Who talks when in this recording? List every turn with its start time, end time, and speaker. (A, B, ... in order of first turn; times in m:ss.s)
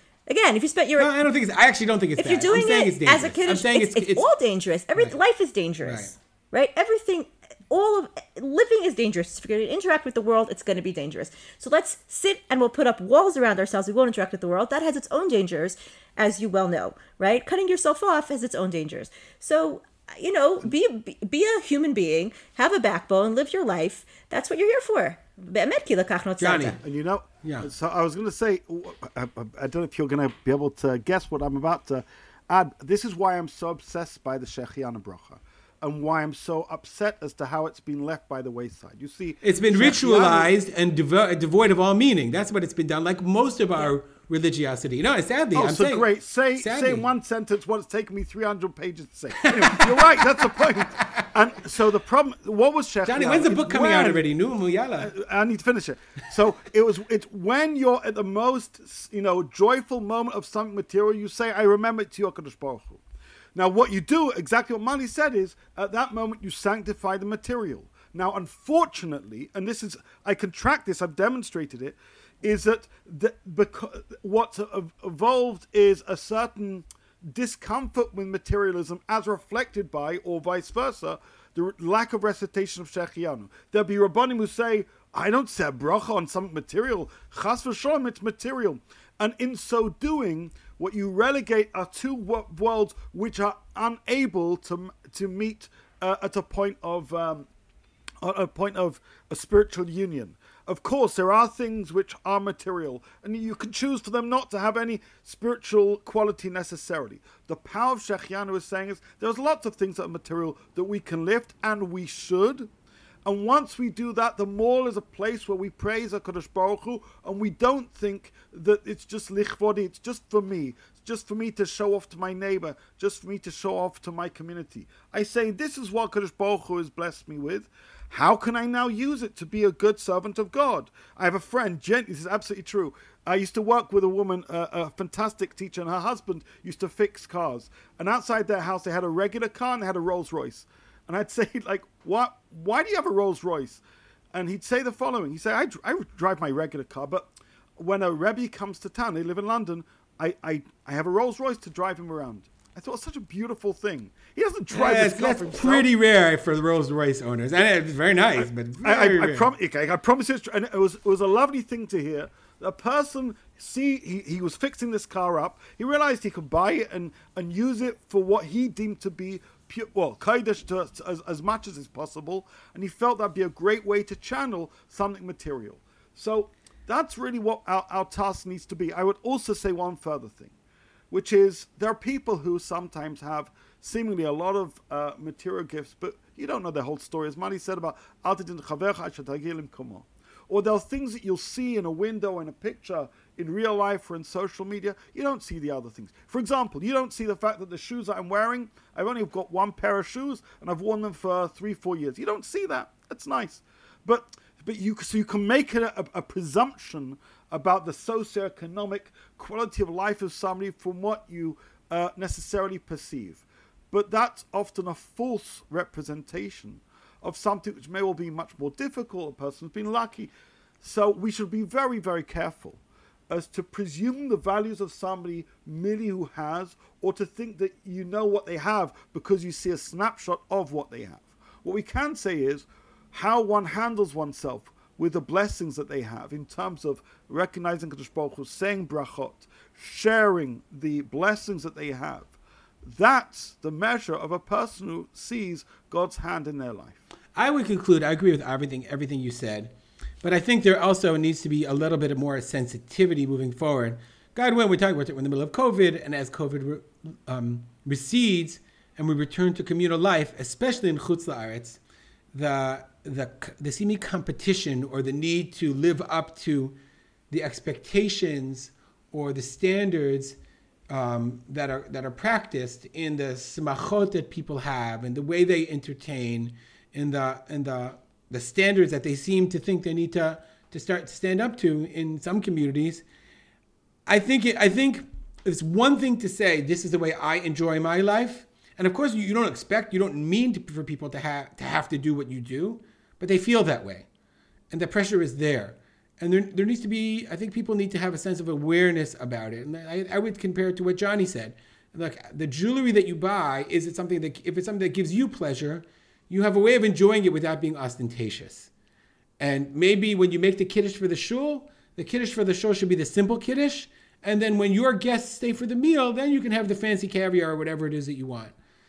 0:00.3-0:01.1 A
0:01.0-0:04.3 B
0:02.2-0:26.8 A
0:05.8-0:06.1 B
0:26.4-0:26.8 B
0:26.8-0:40.5 C
0:27.4-0:27.7 B
0:39.4-0:47.1 B
0:45.5-0:54.2 C
0:49.4-0:50.4 B
0:51.0-0:51.3 B
0:53.1-0:55.1 B
0:55.0-1:03.0 C
1:03.5-1:37.5 C
1:38.2-1:52.7 C
1:53.2-2:35.9 C
2:34.7-2:39.5 B
2:38.4-3:00.6 C
3:01.1-4:02.3 C
4:02.8-4:07.0 C
4:07.3-4:21.8 B
4:22.3-4:26.8 B
4:27.3-4:30.4 B
4:30.9-4:43.0 B
4:44.1-4:54.0 B
4:54.7-5:08.7 B
5:09.4-5:18.5 B